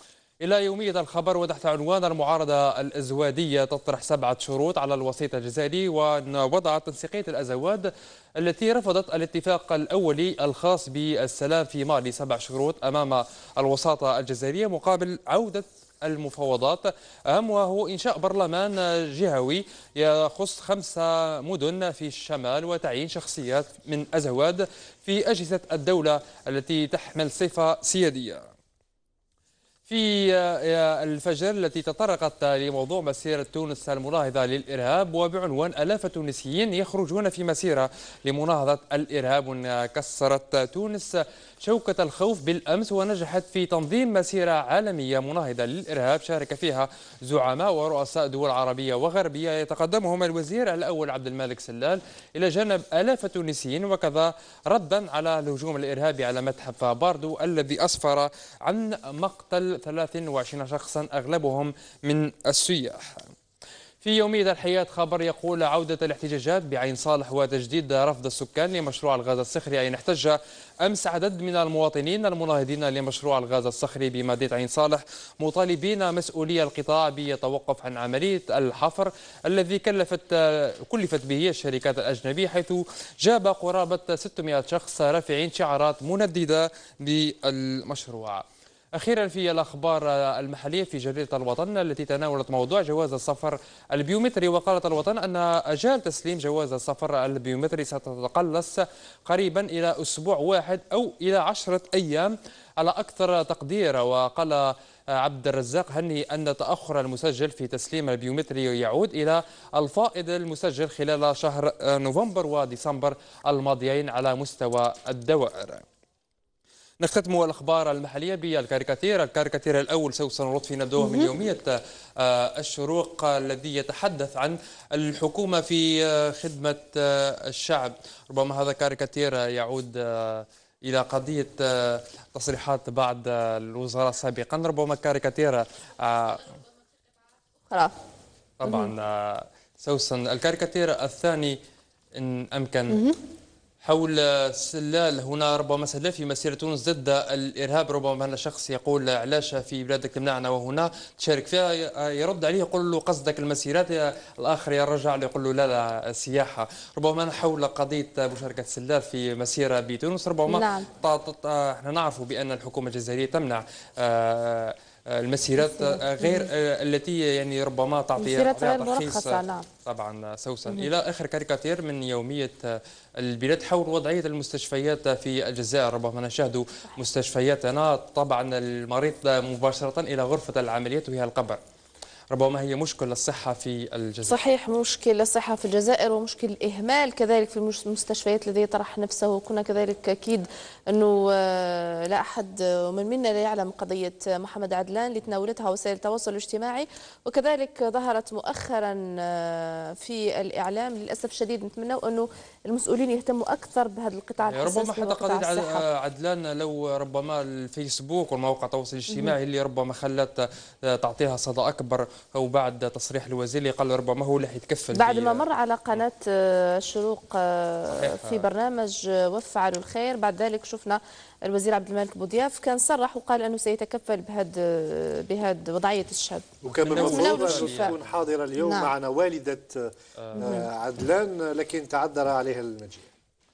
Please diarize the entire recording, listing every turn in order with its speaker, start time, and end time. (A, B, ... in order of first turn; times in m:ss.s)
0:00.4-0:28.4 A
0:29.9-1:03.2 A
1:04.0-1:28.4 A
1:28.9-1:55.8 A
1:57.0-2:16.5 A
2:01.0-2:01.3 B
2:18.6-2:21.6 A
2:22.2-2:23.0 A
2:22.9-2:23.2 B
2:23.8-3:01.6 A
2:40.5-2:40.9 B
2:45.6-2:46.4 B
2:48.2-2:49.7 B
3:02.3-3:04.4 A
3:04.2-3:25.8 B
3:24.4-3:35.4 A
3:34.9-3:47.9 B
3:37.9-3:38.4 A
3:46.6-3:53.1 C
3:46.8-3:48.0 A
3:48.6-3:48.9 B
3:50.2-3:50.6 A
3:50.4-3:50.6 B